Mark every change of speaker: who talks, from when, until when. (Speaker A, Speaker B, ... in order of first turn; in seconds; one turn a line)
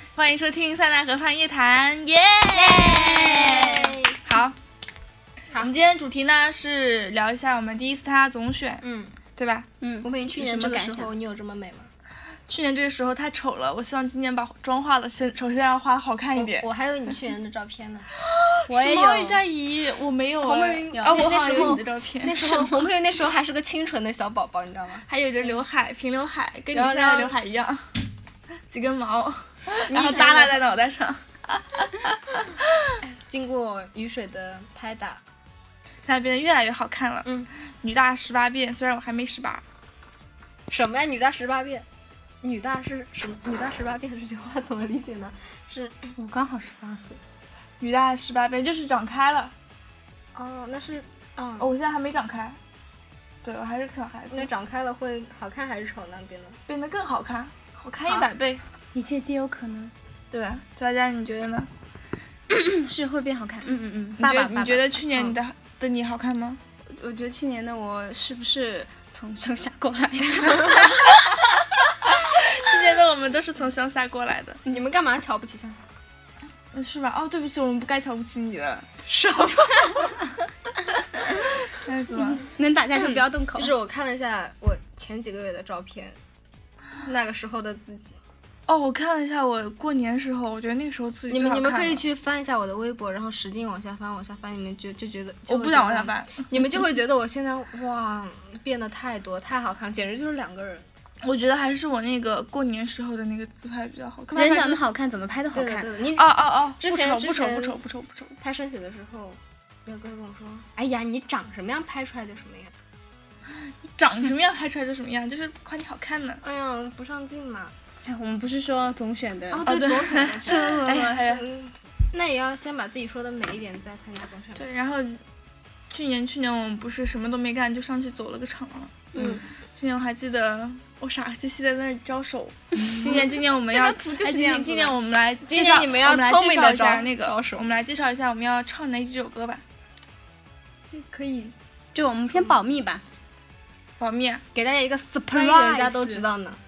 Speaker A: 0.2-4.6
Speaker B: 2.5-4.2
Speaker A: 5.6-8.8
Speaker B: 8.8-9.2
Speaker A: 9.4-9.7
Speaker C: 9.8-11.1
Speaker B: 10.0-11.9
Speaker A: 12.5-16.7
Speaker B: 16.3-18.1
Speaker A: 18.2-22.7
Speaker B: 18.7-19.4
Speaker B: 20.4-25.1
Speaker C: 20.9-21.8
Speaker A: 25.1-27.9
Speaker B: 26.7-27.4
Speaker A: 28.7-32.9
Speaker B: 29.9-30.6
Speaker B: 33.1-35.2
Speaker A: 36.0-39.6
Speaker B: 40.7-41.9
Speaker B: 42.4-46.1
Speaker C: 46.2-47.2
Speaker A: 47.8-49.5
Speaker B: 50.3-51.7
Speaker A: 51.6-52.6
Speaker A: 53.4-54.5
Speaker B: 54.3-56.6
Speaker A: 56.7-58.6
Speaker C: 58.9-59.9
Speaker A: 60.3-61.7
Speaker C: 62.6-65.3
Speaker A: 64.2-66.6
Speaker C: 66.9-71.0
Speaker A: 72.1-74.6
Speaker B: 74.7-75.8
Speaker A: 76.7-78.9
Speaker B: 79.1-80.2
Speaker A: 81.7-82.5
Speaker C: 82.5-83.7
Speaker B: 83.0-86.2
Speaker B: 87.0-88.2
Speaker A: 88.7-92.0
Speaker B: 91.3-100.9
Speaker A: 95.5-96.5
Speaker A: 101.2-104.8
Speaker C: 104.3-106.1
Speaker B: 105.5-106.2
Speaker A: 106.1-108.3
Speaker B: 106.8-107.8
Speaker B: 108.4-112.8
Speaker A: 113.9-116.4
Speaker B: 116.4-117.8
Speaker C: 118.0-119.7
Speaker B: 119.5-124.7
Speaker A: 119.7-121.4
Speaker A: 124.6-125.2
Speaker A: 125.9-129.2
Speaker B: 129.1-129.4
Speaker A: 129.7-139.6
Speaker B: 133.0-134.9
Speaker B: 135.5-137.7
Speaker B: 140.9-141.5
Speaker C: 141.9-143.0
Speaker A: 144.0-144.4
Speaker B: 144.6-146.6
Speaker C: 145.2-146.2